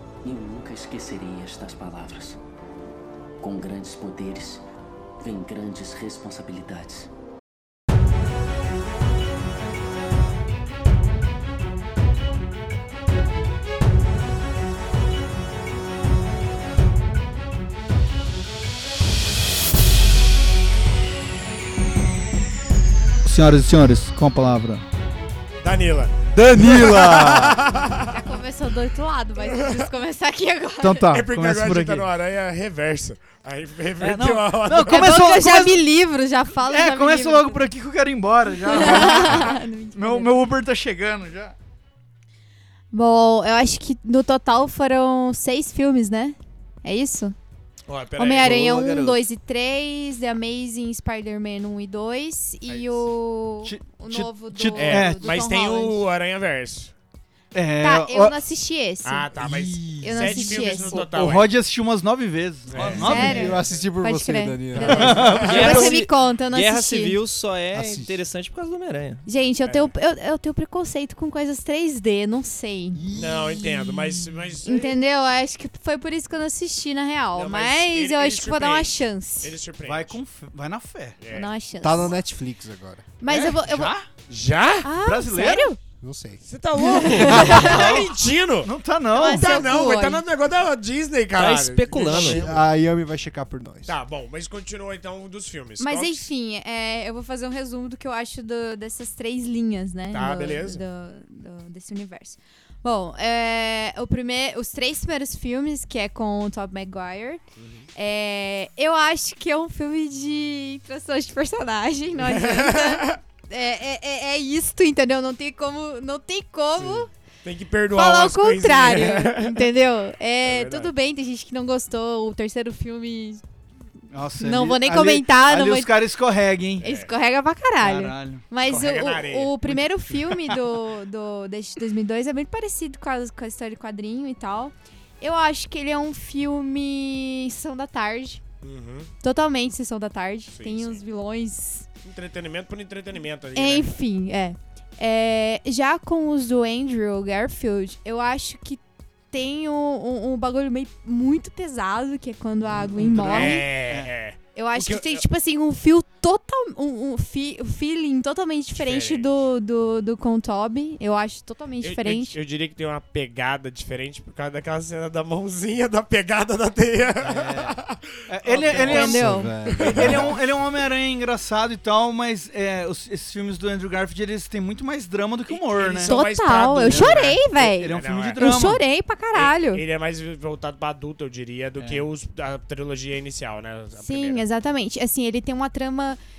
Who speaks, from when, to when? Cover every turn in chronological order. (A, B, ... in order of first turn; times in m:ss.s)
0:00.2-0:02.4 A
0:03.4-0:04.6 A
0:05.2-0:07.1 A
0:23.2-0:24.8 B
0:25.6-0:28.2 C
0:26.3-0:27.6 D
0:28.1-0:31.1 E
0:29.5-0:29.8 C
0:30.8-0:32.1 B
0:31.1-0:35.3 C
0:34.0-0:35.8 B
0:34.8-0:37.6 E
0:36.6-0:41.5 B
0:38.7-0:40.4 E
0:38.9-0:39.5 C
0:42.9-0:47.3 E
0:47.9-0:48.7 C
0:48.2-0:56.0 E
0:48.4-0:49.2 B
0:53.6-0:55.3 B
0:54.7-0:56.9 C
0:57.5-0:58.4 B
0:57.8-0:59.3 E
0:59.0-1:01.5 C
0:59.5-1:00.0 D
1:00.0-1:01.0 E
1:00.3-1:03.6 B
1:02.7-1:03.8 C
1:02.8-1:05.5 D
1:03.0-1:07.2 E
1:04.8-1:05.9 C
1:04.8-1:05.8 B
1:05.4-1:09.2 F
1:07.7-1:08.1 D
1:09.2-1:13.0 E
1:09.6-1:09.9 C
1:12.9-1:14.4 D
1:13.1-1:14.9 C
1:14.6-1:19.5 E
1:17.3-1:20.2 C
1:19.8-1:21.2 B
1:21.2-1:21.5 C
1:21.3-1:22.1 E
1:21.8-1:23.1 D
1:23.2-1:23.9 E
1:23.3-1:24.1 B
1:24.3-1:24.9 C
1:24.8-1:25.8 E
1:25.0-1:25.7 B
1:26.0-1:26.4 D
1:26.4-1:32.6 C
1:26.8-1:28.1 E
1:27.3-1:29.7 B
1:29.1-1:30.2 E
1:31.4-1:32.5 F
1:32.1-1:34.0 D
1:33.8-1:36.3 C
1:35.8-1:47.4 E
1:40.1-1:40.8 C
1:47.6-1:47.8 C
1:48.0-1:57.1 E
1:52.2-1:53.2 C
1:56.8-1:59.7 C
1:57.9-2:03.4 E
2:00.4-2:00.9 C
2:04.1-2:06.8 B
2:04.4-2:05.9 E
2:06.8-2:07.1 C
2:06.8-2:18.4 E
2:07.8-2:08.4 B
2:08.6-2:09.6 C
2:09.7-2:10.6 B
2:18.6-2:19.1 C
2:19.2-2:21.9 E
2:20.5-2:21.0 C
2:22.0-2:23.9 C
2:23.5-2:33.7 E
2:33.0-2:34.1 B
2:33.0-2:35.2 C
2:34.5-2:42.4 E
2:38.8-2:39.3 C
2:41.8-2:50.4 C
2:47.2-2:49.2 B
2:48.7-2:49.5 E
2:48.7-2:50.4 D
2:49.9-2:56.1 B
2:55.5-2:58.5 C
2:56.0-2:59.8 E
2:56.8-2:58.8 B
2:59.3-3:04.4 C
3:01.8-3:02.1 B
3:04.0-3:06.2 E